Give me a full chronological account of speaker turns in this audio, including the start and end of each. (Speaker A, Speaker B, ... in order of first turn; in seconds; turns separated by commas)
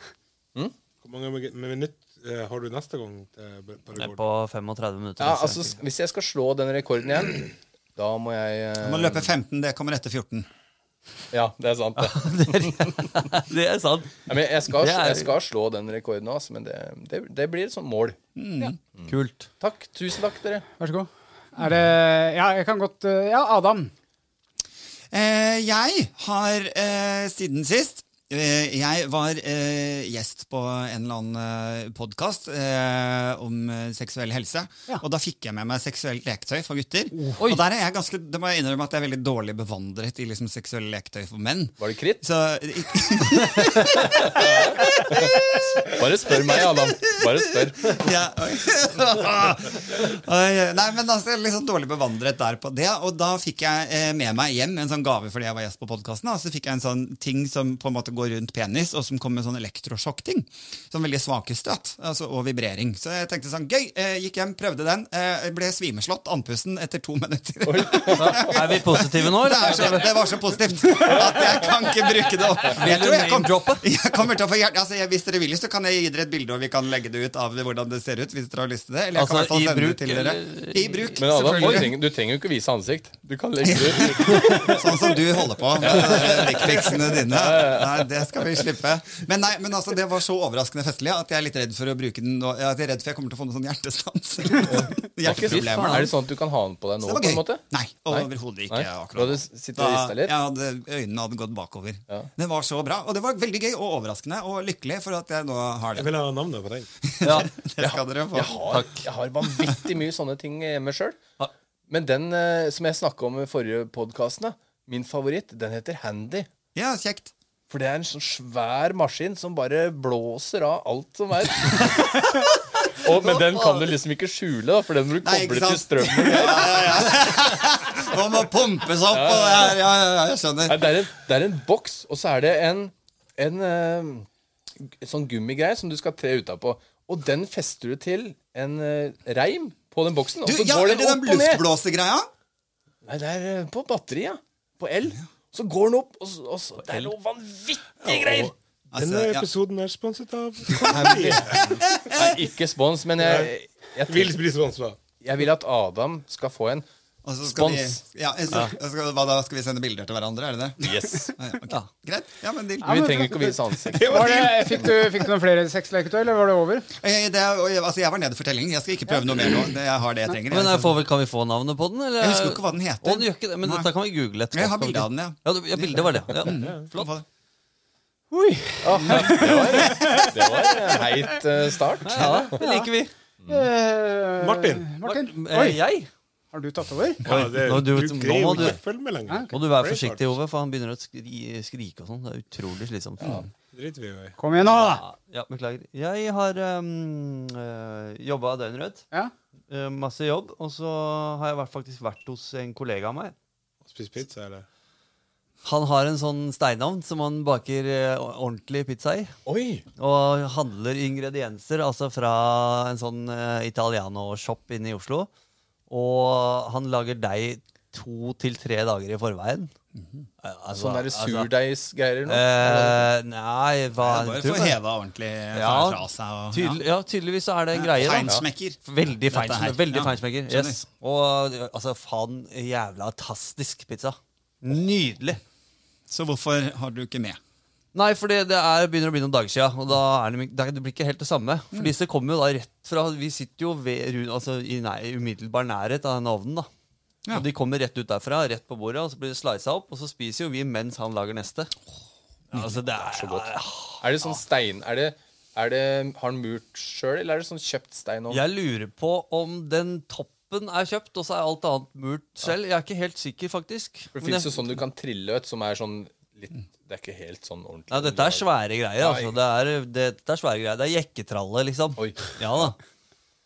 Speaker A: 1.0-4.2, Speaker B: 4.0-5.8, Speaker C: 5.2-9.3, Speaker D: 8.8-10.5, Speaker C: 11.3-13.3, Speaker B: 12.0-15.3, Speaker C: 14.3-18.2, Speaker D: 18.4-18.8, Speaker C: 18.9-20.6, Speaker B: 19.1-19.5, Speaker E: 20.8-23.9, Speaker D: 25.1-45.6, Speaker C: 41.8-42.2, Speaker C: 44.0-48.1, Speaker D: 46.2-82.0, Speaker C: 67.6-68.5, Speaker B: 68.5-70.1, Speaker B: 72.7-73.8, Speaker B: 79.1-81.9, Speaker C: 81.2-85.0, Speaker D: 83.6-96.1, Speaker C: 85.8-88.5, Speaker B: 86.0-86.7, Speaker C: 94.6-100.3, Speaker B: 95.2-96.1, Speaker D: 97.0-106.1, Speaker A: 105.9-106.9, Speaker D: 107.0-108.8, Speaker B: 107.2-107.5, Speaker C: 107.8-111.2, Speaker B: 108.7-109.0, Speaker C: 111.9-116.5, Speaker D: 116.7-117.3, Speaker C: 117.7-127.3, Speaker B: 123.2-123.9, Speaker D: 125.2-131.1, Speaker C: 129.1-129.8, Speaker C: 130.7-134.3, Speaker C: 134.8-141.7, Speaker D: 140.4-142.3, Speaker C: 143.0-148.5, Speaker A: 148.0-152.0, Speaker D: 148.9-149.5, Speaker C: 150.8-154.4, Speaker D: 151.8-152.3, Speaker A: 153.2-153.5, Speaker A: 154.1-155.0, Speaker C: 155.2-156.8, Speaker D: 157.2-163.3, Speaker C: 157.4-158.0, Speaker C: 160.8-161.3, Speaker C: 162.8-164.8, Speaker E: 162.9-166.9, Speaker A: 163.9-164.8, Speaker D: 167.0-171.0, Speaker B: 170.5-177.1, Speaker D: 172.2-173.9, Speaker D: 174.5-177.2, Speaker A: 176.5-176.8, Speaker E: 178.3-181.4, Speaker C: 178.8-182.5, Speaker B: 182.1-183.1, Speaker D: 182.2-182.5, Speaker E: 182.6-182.9, Speaker C: 183.4-183.7, Speaker E: 183.5-185.8, Speaker A: 184.4-184.9, Speaker B: 185.0-186.1, Speaker E: 186.5-187.2, Speaker A: 187.2-190.3, Speaker B: 187.3-188.8, Speaker E: 189.3-189.5, Speaker B: 189.5-193.4, Speaker C: 193.2-193.5, Speaker A: 193.7-194.3, Speaker E: 194.4-195.0, Speaker B: 194.8-199.0, Speaker B: 199.7-203.3, Speaker A: 203.8-204.7, Speaker B: 205.6-209.3, Speaker C: 209.4-209.8, Speaker B: 210.0-215.3, Speaker B: 215.9-219.7, Speaker B: 220.4-221.5, Speaker C: 220.7-223.1, Speaker B: 222.2-224.8, Speaker D: 224.0-226.8, Speaker B: 225.5-235.4, Speaker D: 227.7-230.8, Speaker D: 236.1-237.4, Speaker B: 237.9-246.7, Speaker B: 247.3-251.7, Speaker B: 252.5-254.4, Speaker C: 252.5-258.4, Speaker B: 258.3-264.5, Speaker C: 264.1-268.4, Speaker B: 267.9-272.8, Speaker C: 269.0-269.3, Speaker C: 272.0-272.6